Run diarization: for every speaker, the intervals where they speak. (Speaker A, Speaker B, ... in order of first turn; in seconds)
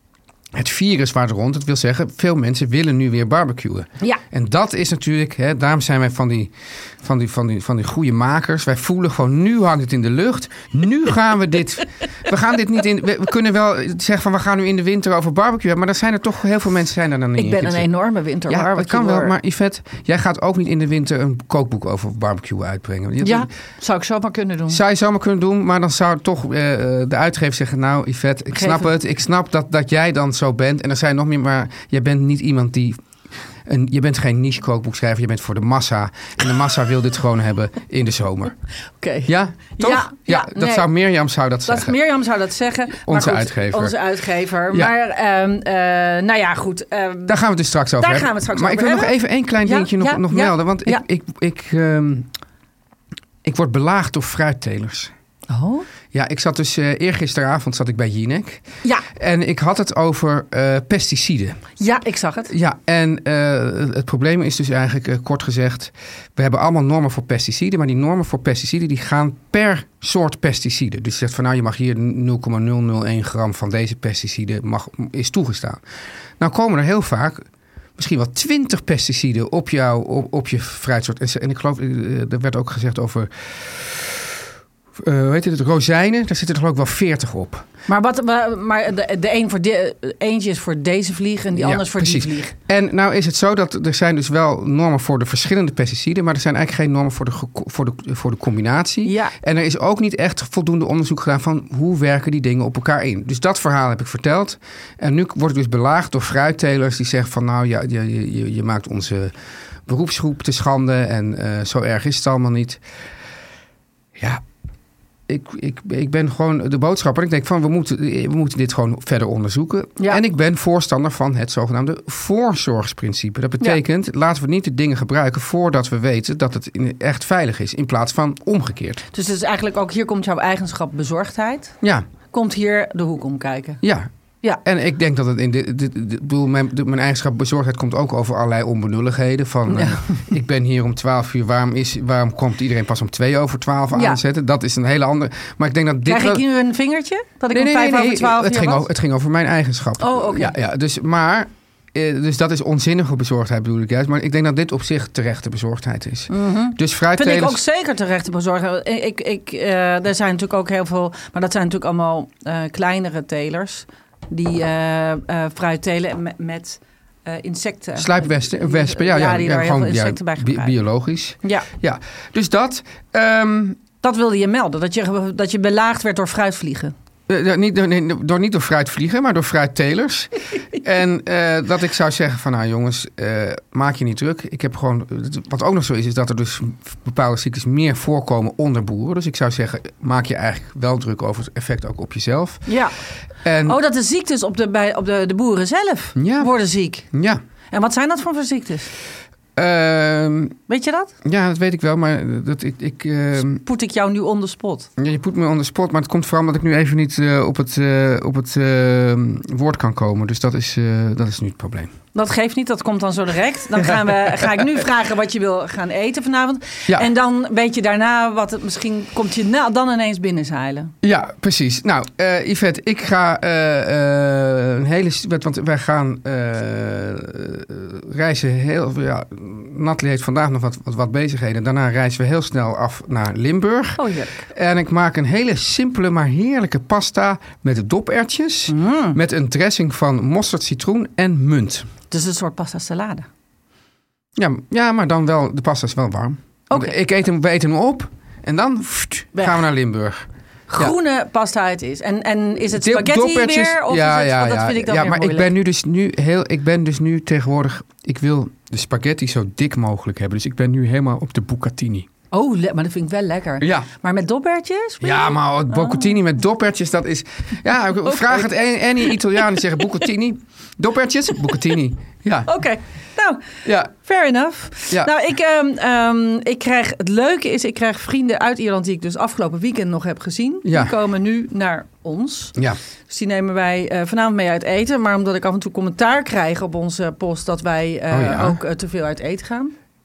Speaker A: 0.5-17.9, 18.5-23.5, 24.7-33.0, 33.6-38.6, 39.2-42.0, 43.0-44.0, 47.3-52.3, 53.4-55.1, 56.1-61.6, 62.5-75.8, 76.4-77.5, 78.0-84.4, 85.0-87.6, 91.5-109.3, 109.8-112.8, 114.2-114.4, 115.3-129.0, 133.8-134.1, 134.6-146.4, 147.5-157.6, 167.9-173.8, 177.3-192.7, 193.4-193.8, 196.2-196.5, 197.1-197.4, 199.6-200.6, 201.2-203.6, 205.0-211.9, 221.0-241.9, 244.3-250.9, 252.7-262.1, 263.6-263.9, 265.0-272.5, 273.6-273.9, 280.6-280.9, 288.1-288.6
Speaker B: 17.4-19.3, 23.2-24.8, 28.5-28.9, 39.0-40.9, 41.6-47.4, 48.0-51.0, 55.5-55.9, 61.8-62.5, 87.9-92.5, 99.0-99.3, 129.1-131.8, 132.3-133.8, 139.7-140.2, 143.9-144.2, 146.0-148.8, 150.0-150.5, 156.3-170.7, 174.0-176.9, 192.7-192.9, 193.6-197.1, 197.7-198.9, 200.7-201.1, 203.6-204.9, 212.1-220.9, 234.0-234.5, 238.7-239.2, 242.1-243.3, 246.7-246.9, 250.7-255.5, 262.3-266.1, 268.0-269.8, 272.5-282.5, 283.1-289.7